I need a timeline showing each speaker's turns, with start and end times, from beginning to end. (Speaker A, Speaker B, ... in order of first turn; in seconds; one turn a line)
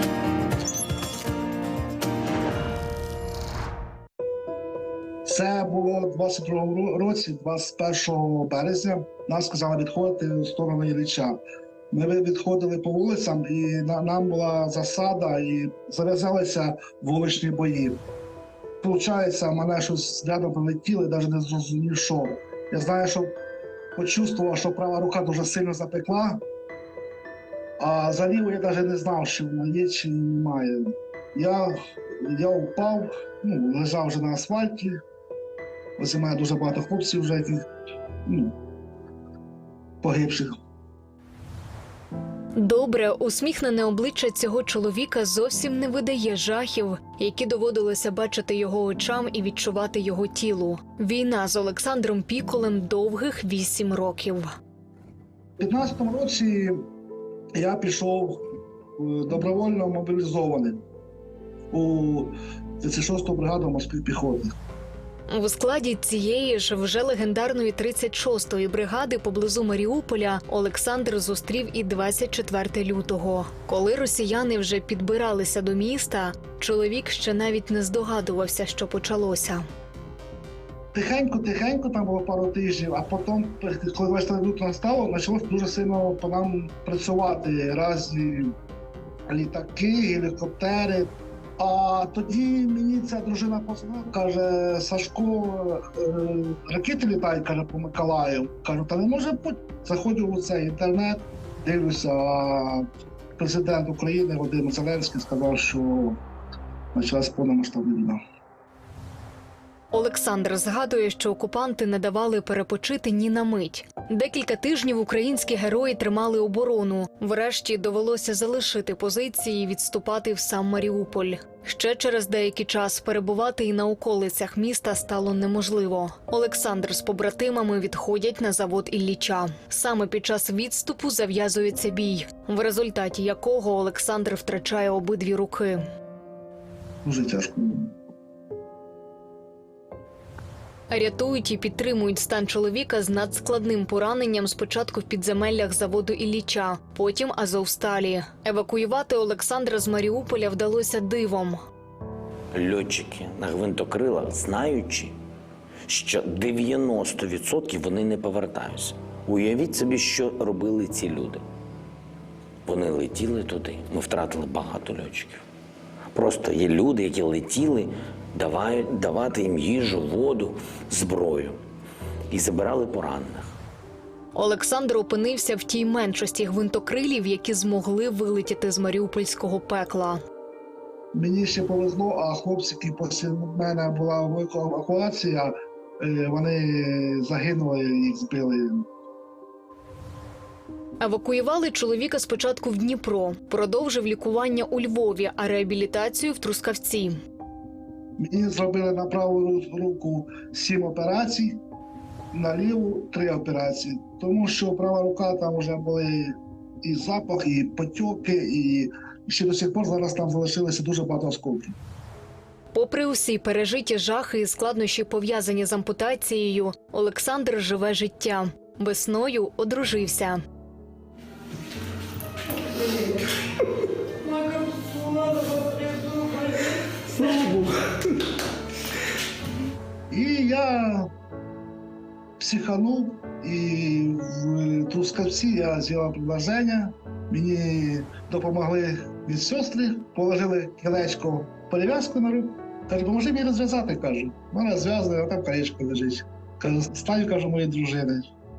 Speaker A: 5.2-11.4
Speaker A: 11.9-18.0
Speaker A: 18.8-23.4
Speaker A: 23.9-26.4
Speaker A: 27.8-35.0
Speaker A: 36.0-37.6
Speaker A: 38.2-38.5
Speaker A: 40.0-40.5
Speaker B: 42.6-54.5
Speaker A: 55.6-56.8
Speaker A: 57.5-58.4
Speaker A: 59.0-60.8
Speaker A: 61.7-64.5
Speaker B: 65.3-79.6
Speaker A: 80.9-88.5
Speaker A: 89.3-102.8
Speaker A: 103.4-106.2
Speaker A: 106.9-108.2
Speaker B: 109.9-135.8
Speaker A: 137.0-137.9
Speaker B: 140.9-151.6
Speaker C: 152.5-155.1
Speaker C: 155.9-161.4
Speaker C: 162.6-165.4
Speaker C: 166.1-171.6
Speaker C: 172.3-173.5
Speaker B: 174.3-180.2
Speaker A: 181.1-188.8
Speaker B: 191.0-197.2
Speaker A: 198.2-201.6
Speaker A: 202.3-211.7
Speaker B: 212.7-220.4
Speaker A: 230.1-231.1
Speaker A: 232.4-248.2